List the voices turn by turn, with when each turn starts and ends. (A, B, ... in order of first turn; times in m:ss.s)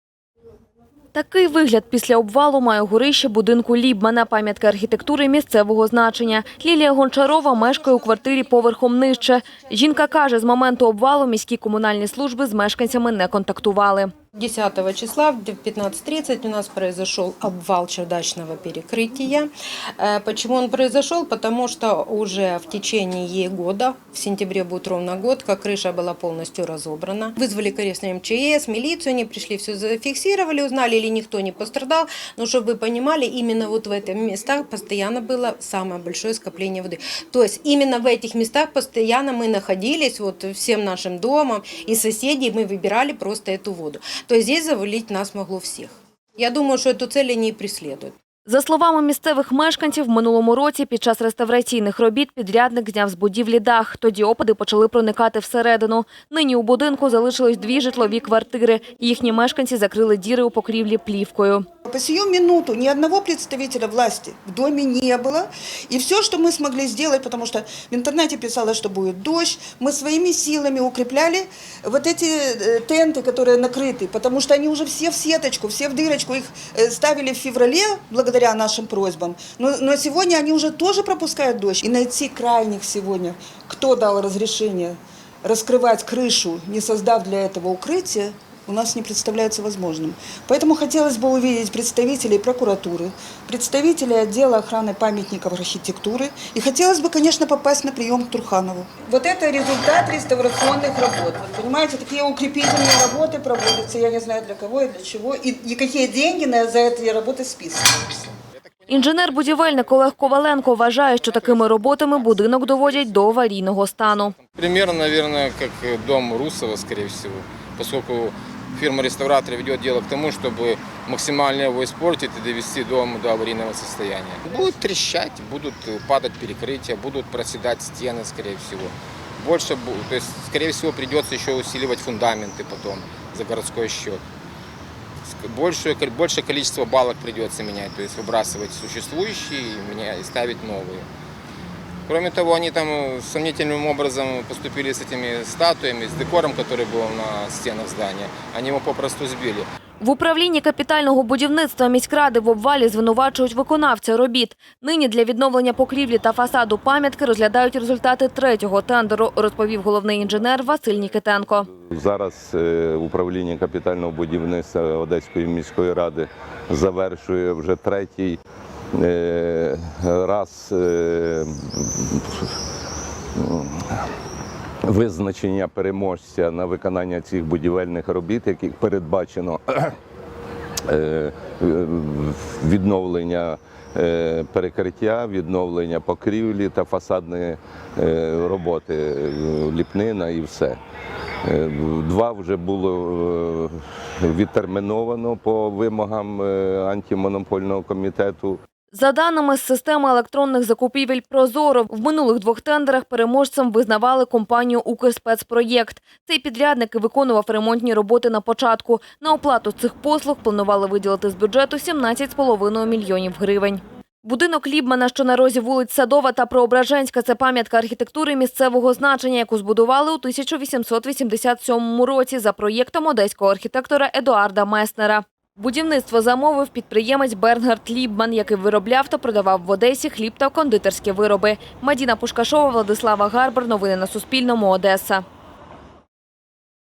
0:01.1-0:14.1 A
0:14.4-0:48.1 B
0:48.5-1:01.6 A
1:01.9-1:48.3 C
1:48.7-1:53.4 D
1:48.9-1:54.4 A
1:54.0-2:14.2 D
2:15.2-2:21.1 D
2:22.1-2:29.7 D
2:30.0-2:41.7 A
2:41.8-2:48.4 E
2:48.9-2:52.5 E
2:53.4-2:54.0 E
2:54.8-3:00.0 E
3:00.9-3:10.8 E
3:11.4-3:18.6 E
3:18.9-3:55.2 A